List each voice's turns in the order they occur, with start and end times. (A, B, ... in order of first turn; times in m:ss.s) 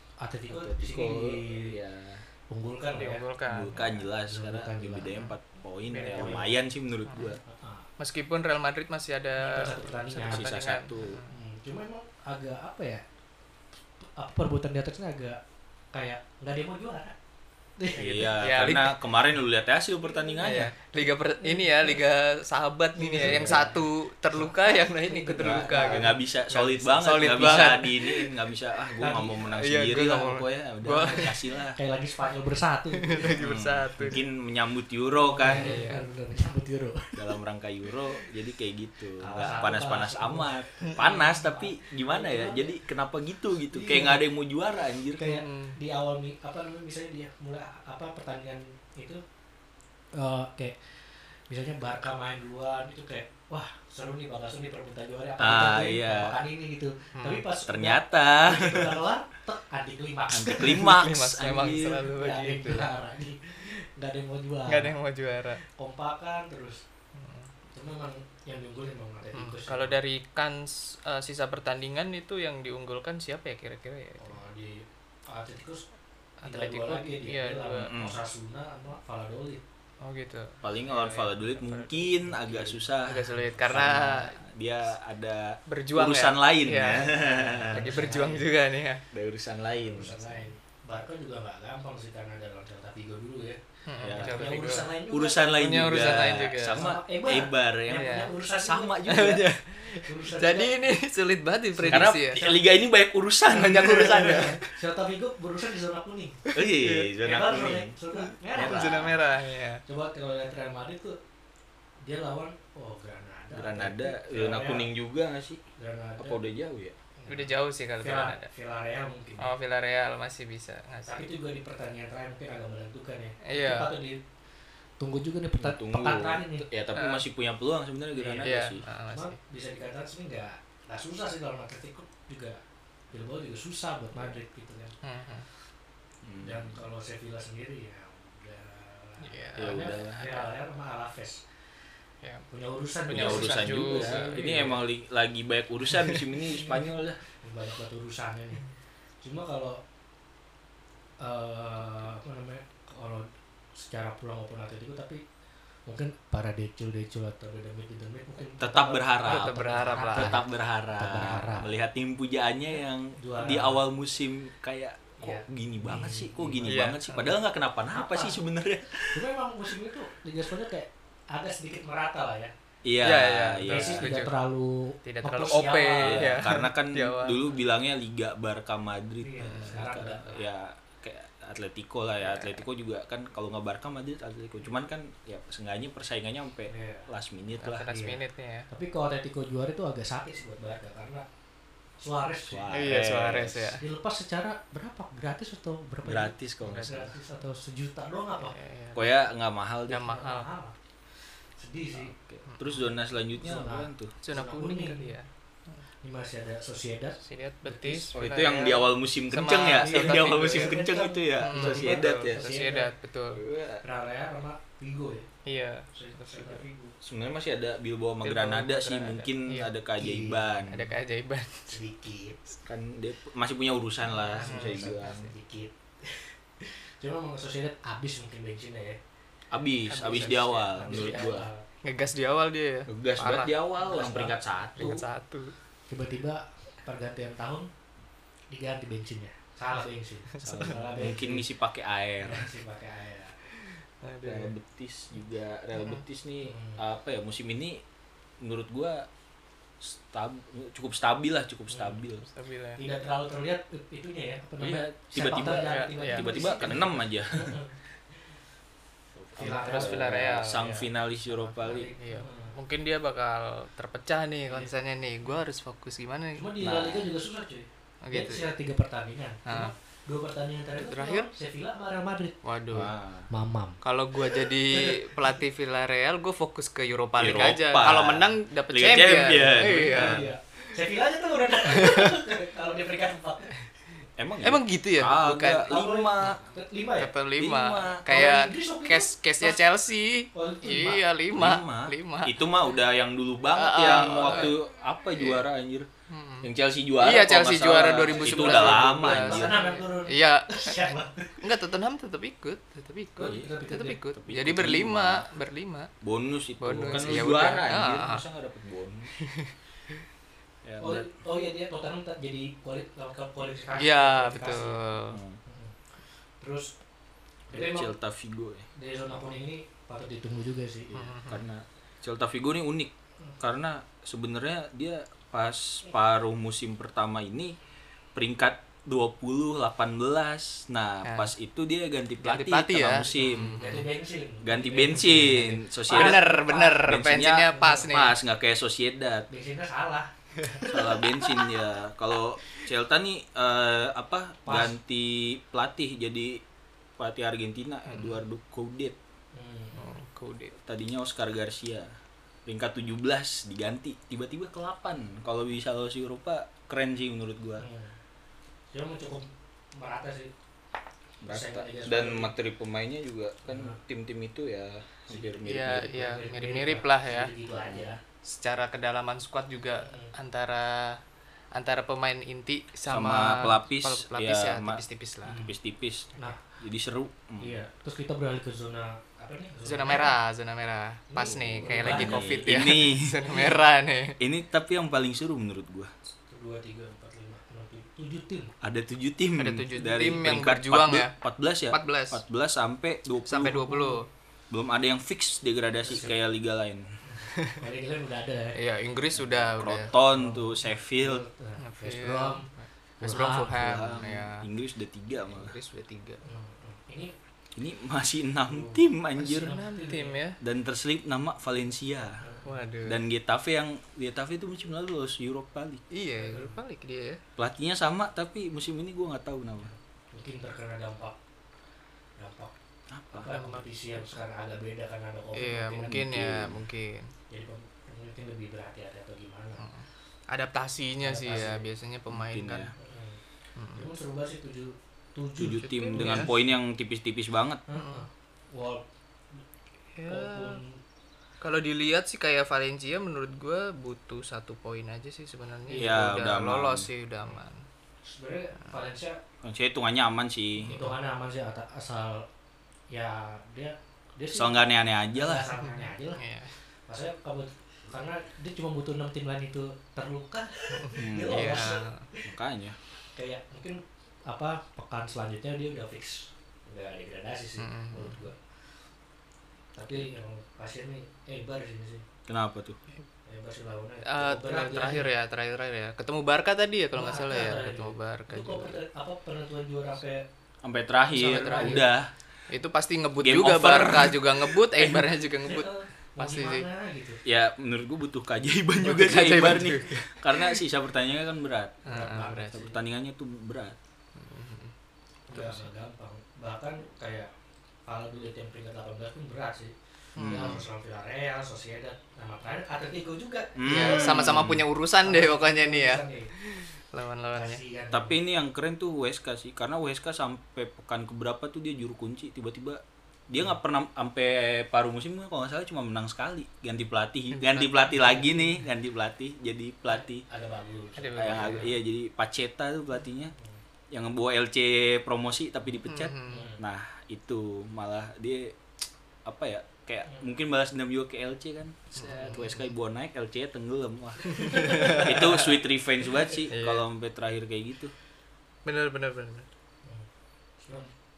0:00.2-0:01.8 A
0:00.5-0:02.2 B
0:02.5-0:03.2 A
0:02.9-0:04.0 C
0:03.5-0:07.4 B
0:04.3-0:05.3 A
0:05.9-0:06.5 C
0:06.0-0:06.5 A
0:07.1-0:07.4 C
0:07.4-0:07.8 A
0:08.0-0:11.4 C
0:09.4-0:10.5 A
0:10.3-0:11.2 B
0:11.3-0:13.0 A
0:14.2-0:15.4 A
0:15.9-0:17.1 A
0:17.8-0:18.7 A
0:17.9-0:20.7 B
0:18.2-0:19.0 C
0:20.4-0:22.0 A
0:20.4-0:28.4 C
0:22.9-0:26.2 A
0:23.2-0:23.6 B
0:25.4-0:31.8 B
0:27.0-0:27.8 A
0:29.0-0:29.5 A
0:29.5-0:31.6 C
0:31.8-0:33.4 A
0:32.9-0:34.2 C
0:33.3-0:35.7 B
0:35.2-0:37.2 A
0:35.4-0:36.0 C
0:37.1-0:45.2 B
0:39.2-0:42.8 A
0:43.7-0:44.2 A
0:45.1-0:49.2 A
0:45.2-0:45.8 C
0:50.1-1:00.9 A
0:55.4-0:56.4 B
0:57.1-0:57.5 C
0:57.6-0:59.0 B
1:00.3-1:02.1 B
1:00.7-1:02.9 C
1:02.1-1:04.9 A
1:04.7-1:05.6 C
1:05.7-1:06.8 A
1:07.1-1:07.5 C
1:07.7-1:10.0 A
1:09.3-1:14.4 C
1:14.2-1:15.8 A
1:16.4-1:17.9 C
1:16.4-1:19.6 A
1:17.9-1:18.2 B
1:20.0-1:22.5 C
1:20.6-1:28.0 B
1:22.3-1:24.3 A
1:23.0-1:24.4 C
1:25.7-1:29.0 C
1:26.9-1:28.5 A
1:29.1-1:30.1 B
1:29.8-1:33.6 A
1:30.0-1:30.5 C
1:33.9-1:35.0 C
1:34.0-1:34.4 B
1:34.1-1:35.8 A
1:35.1-1:39.5 B
1:35.5-1:36.9 C
1:36.7-1:39.4 A
1:37.9-1:38.4 C
1:39.0-1:42.5 C
1:39.9-1:40.8 A
1:41.7-1:42.7 A
1:41.9-1:44.6 B
1:43.5-1:44.6 C
1:43.5-1:46.4 A
1:46.5-1:47.1 C
1:46.5-1:47.9 B
1:47.2-1:49.3 A
1:48.1-1:49.8 C
1:48.5-1:49.1 B
1:49.8-1:51.2 A
1:52.0-1:54.9 A
1:53.5-1:55.6 B
1:55.8-1:56.4 A
1:56.2-1:56.9 B
1:57.2-1:59.5 A
1:57.3-1:58.5 C
1:59.4-2:01.2 C
2:01.0-2:04.2 A
2:03.4-2:04.0 C
2:05.0-2:06.7 A
2:05.6-2:08.8 B
2:06.9-2:07.2 C
2:08.1-2:12.6 A
2:08.3-2:09.4 C
2:13.1-2:14.9 A
2:15.0-2:15.4 C
2:16.2-2:16.8 B
2:16.4-2:21.4 A
2:19.2-2:19.8 C
2:19.6-2:20.5 B
2:22.5-2:24.8 A
2:23.1-2:24.8 C
2:23.1-2:27.2 B
2:27.4-2:28.6 A
2:29.2-2:29.8 A
2:31.2-2:35.2 A
2:35.9-2:41.7 A
2:38.6-2:49.3 B
2:39.2-2:40.4 C
2:43.2-2:43.8 A
2:45.2-2:47.4 A
2:46.6-2:47.0 C
2:47.9-2:48.4 A
2:49.1-2:52.5 A
2:52.8-2:54.1 B
2:53.0-2:54.3 C
2:53.6-2:56.4 A
2:55.0-2:57.6 C
2:56.0-3:07.8 B
2:59.2-3:00.3 A
2:59.4-2:59.8 C
3:02.2-3:02.6 C
3:06.7-3:07.1 A
3:07.6-3:08.7 C
3:07.8-3:11.2 A
3:12.0-3:12.8 A
3:12.5-3:13.8 B
3:12.7-3:13.8 C
3:13.8-3:18.6 A
3:16.0-3:17.1 B
3:16.6-3:17.1 C
3:18.3-3:19.2 C
3:18.9-3:20.0 B
3:19.9-3:20.5 C
3:20.0-3:20.7 A
3:21.6-3:22.1 A
3:21.9-3:24.1 B
3:22.4-3:22.9 C
3:23.4-3:25.1 A
3:24.2-3:25.8 C
3:26.0-3:28.1 A
3:27.2-3:30.8 C
3:28.1-3:32.4 B
3:29.6-3:32.9 A
3:31.4-3:33.4 C
3:33.3-3:33.8 B
3:33.8-3:35.3 A
3:35.4-3:36.6 C
3:35.9-3:37.0 A
3:37.0-3:40.9 B
3:38.2-3:39.7 C
3:40.0-3:40.6 A
3:40.7-3:41.8 C
3:41.7-3:42.4 A
3:42.6-3:45.3 B
3:44.1-3:49.0 A
3:44.3-3:45.3 C
3:49.5-3:51.5 B
3:49.8-3:51.3 C
3:50.0-3:51.6 A
3:51.8-3:55.5 C
3:52.9-3:55.0 B
3:53.9-3:55.0 A
3:55.9-3:57.7 A
3:58.5-4:01.5 A
4:00.3-4:00.7 C
4:00.4-4:02.5 B
4:02.2-4:03.4 A
4:03.5-4:04.5 C
4:04.2-4:07.8 B
4:05.8-4:06.0 C
4:06.4-4:06.8 A
4:08.4-4:09.0 B
4:09.8-4:12.2 B
4:11.7-4:12.0 A
4:12.2-4:12.8 C
4:12.8-4:17.8 A
4:14.6-4:17.6 B
4:15.5-4:16.3 C
4:19.1-4:21.9 B
4:19.4-4:20.3 A
4:19.4-4:26.6 C
4:21.6-4:22.5 A
4:26.3-4:32.4 A
4:26.6-4:27.1 B
4:28.0-4:28.5 C
4:29.4-4:29.7 C
4:30.8-4:31.3 C
4:32.4-4:32.9 C
4:32.7-4:33.3 B
4:33.3-4:35.4 A
4:33.8-4:40.7 C
4:37.2-4:40.3 B
4:39.3-4:43.6 A
4:41.7-4:42.2 C
4:44.2-4:46.4 B
4:44.4-4:46.4 C
4:45.6-4:47.1 A
4:47.0-4:52.4 C
4:47.4-4:48.0 B
4:48.1-4:49.6 A
4:50.3-4:51.0 A
4:51.3-4:55.9 B
4:53.5-4:54.6 C
4:53.8-4:54.6 A
4:55.1-4:55.4 C
4:56.1-5:05.9 C
4:56.4-4:59.6 B
4:57.9-5:01.4 A
5:03.2-5:04.0 A
5:04.1-5:05.2 B
5:06.0-5:09.1 B
5:06.6-5:08.2 C
5:06.7-5:07.3 A
5:10.6-5:11.1 B
5:10.8-5:14.9 A
5:13.8-5:15.2 C
5:15.1-5:15.4 B
5:15.4-5:15.8 A
5:16.4-5:16.7 A
5:17.5-5:17.9 A
5:17.5-5:18.7 B
5:18.7-5:21.1 A
5:20.9-5:21.4 C
5:21.3-5:27.6 B
5:28.1-5:33.8 B
5:31.0-5:31.3 C
5:32.2-5:33.9 C
5:33.1-5:36.9 A
5:34.4-5:36.3 B
5:35.0-5:38.2 C
5:36.8-5:39.3 B
5:37.4-5:38.0 A
5:39.3-5:41.5 A
5:40.7-5:46.4 B
5:44.4-5:44.8 A
5:47.0-5:49.0 B
5:47.8-5:48.2 C
5:49.3-5:50.0 A
5:49.7-5:50.5 C
5:50.6-5:51.9 B
5:52.4-5:57.6 B
5:57.6-5:58.0 A
5:58.7-6:00.3 A
6:01.2-6:06.1 B
6:01.2-6:02.3 A
6:03.5-6:03.8 A
6:05.1-6:05.4 A
6:05.4-6:07.3 C
6:06.0-6:08.0 A
6:07.6-6:07.9 B
6:08.2-6:11.0 C
6:09.8-6:10.1 A
6:11.5-6:15.5 C
6:12.8-6:17.6 B
6:15.2-6:15.5 A
6:16.2-6:16.6 A
6:17.4-6:20.2 A
6:19.6-6:24.2 C
6:21.1-6:22.6 A
6:21.2-6:23.2 B
6:23.2-6:23.6 A
6:24.2-6:25.9 B
6:26.3-6:28.5 A
6:28.6-6:34.0 B
6:29.4-6:31.1 C
6:31.7-6:32.2 C
6:33.2-6:34.1 C
6:34.5-6:37.0 B
6:35.8-6:36.2 A
6:37.0-6:38.6 A
6:38.5-6:39.9 C
6:39.5-6:41.2 B
6:39.9-6:42.5 A
6:41.6-6:44.5 C
6:43.0-6:43.7 A
6:43.6-6:45.5 B
6:45.2-6:46.2 C
6:46.2-6:47.1 A
6:47.6-6:49.6 B
6:48.5-6:50.2 A
6:49.4-6:50.4 C
6:50.4-6:52.2 B
6:52.2-6:52.5 A
6:52.4-6:53.0 C
6:52.8-6:55.8 B
6:55.9-6:57.2 C
6:56.2-6:56.6 A
6:57.4-6:59.7 B
6:59.6-7:01.2 A
7:02.2-7:02.5 A
7:02.9-7:03.3 B
7:03.1-7:06.2 A
7:03.3-7:04.0 C
7:05.3-7:07.1 C
7:05.9-7:06.6 B
7:07.3-7:09.6 A
7:09.6-7:12.7 C
7:11.0-7:11.7 A
7:12.1-7:12.7 B
7:12.8-7:13.2 A
7:13.6-7:13.9 C
7:13.7-7:16.5 A
7:15.4-7:17.6 B
7:15.6-7:16.3 C
7:17.7-7:18.8 A
7:17.7-7:18.0 C
7:20.0-7:20.6 C
7:20.0-7:20.8 A
7:21.4-7:27.6 C
7:25.6-7:26.2 A
7:25.8-7:26.9 B
7:28.0-7:29.2 A
7:29.4-7:30.8 B
7:30.6-7:30.9 C
7:30.7-7:32.2 A
7:32.9-7:36.2 A
7:34.3-7:35.5 B
7:35.6-7:36.5 C
7:36.9-7:42.3 A
7:40.8-7:42.1 C
7:41.0-7:41.7 B
7:42.2-7:42.8 B
7:43.1-7:48.4 A
7:47.6-7:48.2 C
7:49.7-7:52.0 A
7:52.3-7:52.8 B
7:53.3-7:55.1 A
7:54.0-7:58.8 C
7:56.9-8:00.2 A
8:00.6-8:02.1 B
8:01.1-8:01.9 C
8:01.2-8:01.8 A
8:02.5-8:06.7 C
8:03.2-8:05.1 B
8:05.4-8:07.2 A
8:07.2-8:11.8 B
8:08.8-8:10.6 C
8:11.8-8:12.7 C
8:11.8-8:12.7 A
8:12.5-8:13.8 B
8:14.2-8:14.7 C
8:15.3-8:15.7 C
8:15.3-8:17.3 A
8:17.8-8:26.3 A
8:20.2-8:20.6 C
8:20.2-8:20.6 B
8:23.5-8:24.6 B
8:23.7-8:27.6 C
8:27.3-8:28.2 A
8:27.9-8:40.2 B
8:37.3-8:38.4 C
8:40.3-8:41.7 A
8:41.0-8:41.7 C
8:41.2-8:43.3 B
8:43.9-8:48.6 B
8:45.9-8:46.5 C
8:46.2-8:46.6 A
8:49.2-8:57.9 B
8:52.0-8:52.5 C
8:54.3-8:55.5 C
8:54.6-8:55.1 A
8:56.5-8:56.8 C
8:58.6-8:59.5 C
9:00.6-9:00.9 A